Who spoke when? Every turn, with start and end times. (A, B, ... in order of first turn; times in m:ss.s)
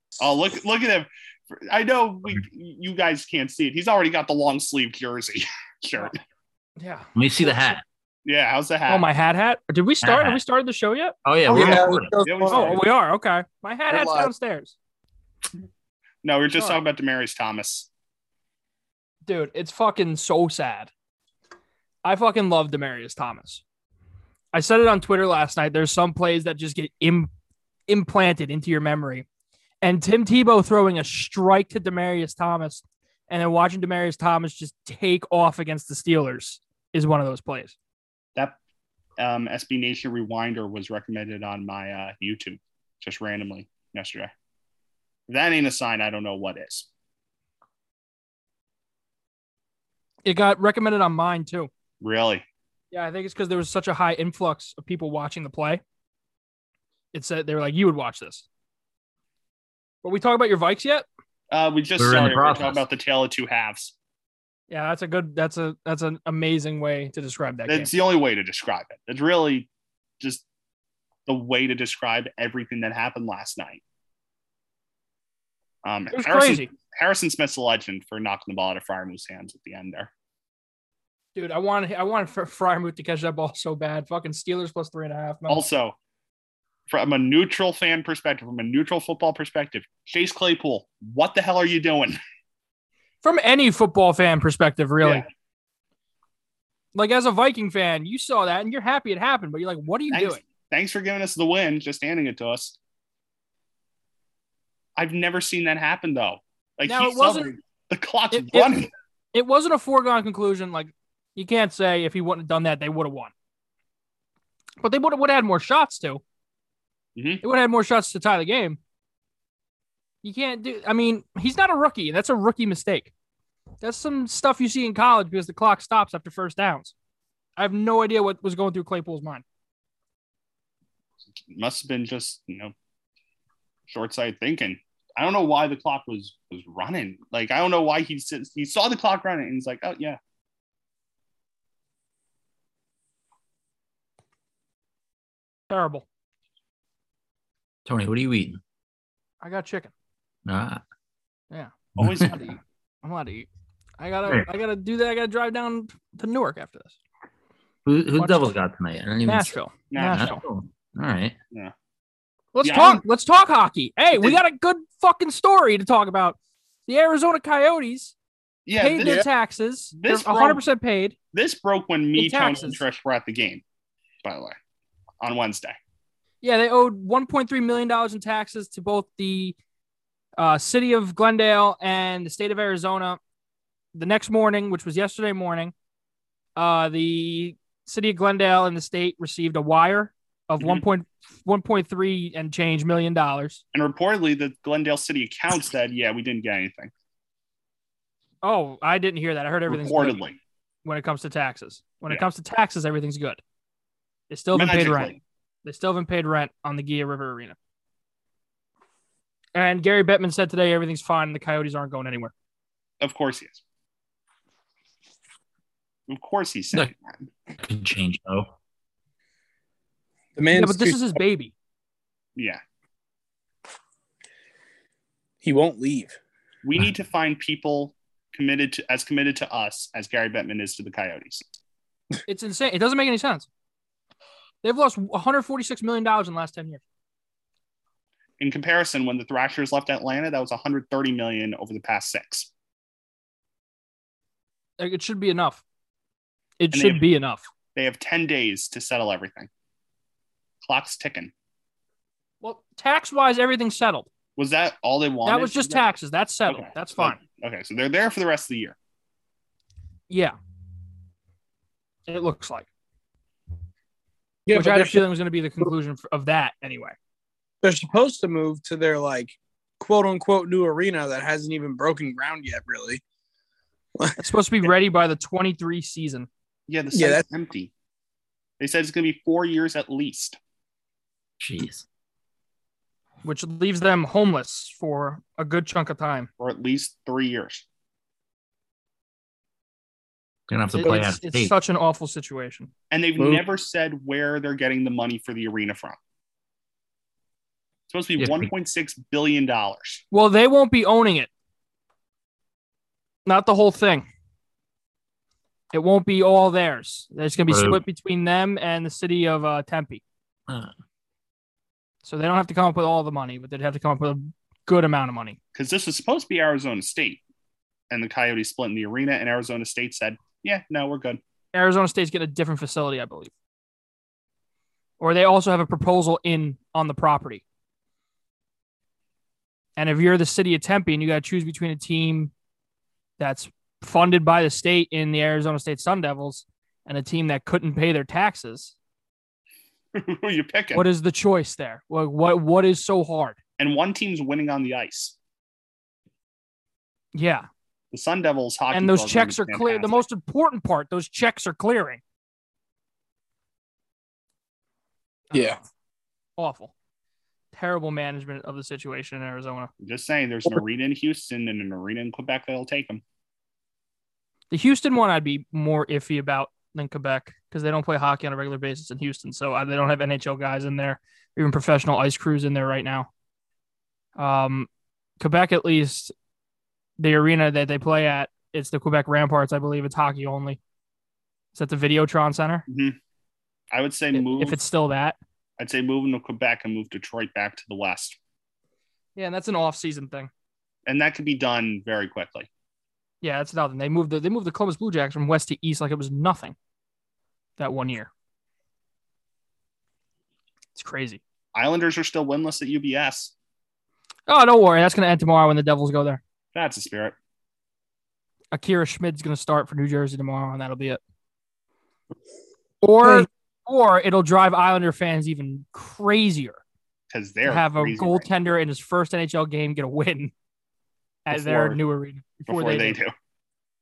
0:00.2-0:06.2 A
0:06.8-0:07.1 B
0:07.2-0:07.8 C
0:08.2-0:09.1 A
0:08.9-0:11.2 B
0:10.0-0:10.4 C
0:11.2-0:12.1 C
0:11.5-0:12.8 D
0:11.5-0:12.8 A
0:12.5-0:14.8 B
0:13.9-0:14.3 D
0:16.2-0:17.9 A
0:19.3-0:20.9 B
0:22.0-0:23.6 B
0:24.5-0:27.3 B
0:27.9-0:29.3 B
0:29.8-0:37.7 B
0:39.2-0:44.3 A
0:45.3-0:46.9 A
0:50.2-0:51.7 B
0:52.0-0:52.4 A
0:52.9-0:55.8 B
0:57.1-0:58.4 B
1:00.0-1:01.0 B
1:01.5-1:03.9 A
1:02.0-1:02.8 C
1:04.7-1:07.9 B
1:07.7-1:09.7 A
1:11.3-1:13.8 A
1:15.8-1:20.1 A
1:16.1-1:16.7 B
1:21.4-1:25.6 B
1:25.5-1:26.0 A
1:26.9-1:32.2 A
1:33.2-1:35.2 B
1:36.9-1:40.4 B
1:40.1-1:42.8 A
1:45.0-1:48.9 A
1:46.9-1:47.6 B
1:48.3-1:53.3 B
1:54.8-1:56.2 B
1:57.2-1:57.4 A
1:57.4-1:58.8 B
2:00.2-2:03.1 B
2:03.8-2:06.9 B
2:07.6-2:09.4 B
2:11.5-2:12.7 A
2:13.9-2:20.2 A
2:25.7-2:26.0 B
2:27.9-2:28.6 C
2:29.4-2:29.9 B
2:30.5-2:30.8 C
2:31.5-2:33.5 B
2:32.0-2:32.2 C
2:32.0-2:32.6 A
2:34.0-2:36.9 B
2:37.8-2:41.4 C
2:38.2-2:38.5 B
2:39.2-2:40.4 B
2:39.9-2:40.3 A
2:42.5-2:48.1 B
2:42.6-2:43.0 A
2:44.2-2:44.4 A
2:48.7-2:49.3 A
2:48.8-2:51.2 B
2:49.9-2:50.6 A
2:51.3-2:53.6 A
2:52.2-2:52.8 B
2:54.2-2:54.6 A
2:55.2-2:55.8 A
2:56.4-2:59.6 B
3:00.4-3:03.2 B
3:03.9-3:05.7 B
3:06.6-3:13.6 B
3:13.7-3:16.9 A
3:18.4-3:20.2 B
3:19.7-3:20.4 A
3:20.8-3:23.4 B
3:24.3-3:25.1 B
3:24.5-3:25.2 A
3:25.6-3:27.6 B
3:29.6-3:32.3 B
3:33.0-3:33.6 A
3:36.1-3:37.3 A
3:37.6-3:38.5 C
3:40.4-3:41.2 D
3:40.5-3:41.5 B
3:42.4-3:42.6 A
3:45.4-3:46.2 D
3:46.6-3:51.4 A
3:52.3-3:53.5 B
3:54.6-3:56.8 B
3:58.4-4:02.5 A
4:04.8-4:05.6 B
4:06.6-4:07.5 B
4:06.7-4:07.0 A
4:07.8-4:09.5 A
4:10.6-4:11.3 A
4:12.4-4:14.1 B
4:14.4-4:15.8 A
4:15.2-4:17.2 B
4:16.5-4:18.8 A
4:20.1-4:20.4 B
4:22.1-4:22.7 B
4:24.5-4:25.0 D
4:24.5-4:27.0 B
4:27.6-4:33.0 D
4:34.2-4:36.3 B
4:36.7-4:37.7 A
4:36.9-4:37.2 D
4:38.6-4:40.4 A
4:41.4-4:41.8 C
4:43.2-4:46.3 B
4:46.4-4:47.6 A
4:50.5-4:51.5 C
4:50.7-4:52.7 B
4:52.9-4:56.0 A
4:53.2-4:53.4 D
4:57.9-5:00.0 A
4:58.2-4:58.5 C
5:00.1-5:01.3 B
5:03.3-5:04.1 B
5:05.7-5:10.0 B
5:07.5-5:07.8 C
5:12.0-5:15.4 B
5:15.6-5:17.2 A
5:17.9-5:21.2 A
5:21.5-5:23.3 B
5:25.0-5:27.4 B
5:29.8-5:32.3 B
5:33.2-5:38.7 B
5:39.9-5:40.8 A
5:40.7-5:43.4 B
5:43.6-5:45.2 A
5:47.1-5:47.5 B
5:47.9-5:50.0 A
5:48.7-5:52.0 B
5:55.3-5:55.6 B
5:55.3-5:55.6 D
5:56.4-5:56.7 B
5:57.5-5:59.7 B
5:59.8-6:03.0 A
6:04.5-6:13.1 B
6:14.2-6:16.1 B
6:17.0-6:20.6 B
6:21.6-6:22.6 B
6:22.7-6:23.0 A
6:23.7-6:24.6 A
6:24.1-6:25.2 B
6:25.6-6:28.2 A
6:29.2-6:30.3 B
6:30.9-6:32.5 A
6:33.2-6:36.6 B
6:37.6-6:38.1 B
6:40.8-6:41.2 B
6:41.6-6:43.3 A
6:44.3-6:46.2 B
6:46.5-6:47.2 A
6:48.5-6:51.0 B
6:52.8-6:56.6 B
6:57.1-6:58.2 A
6:57.4-7:00.3 B
7:01.3-7:03.0 B
7:01.3-7:01.8 A
7:02.5-7:03.1 A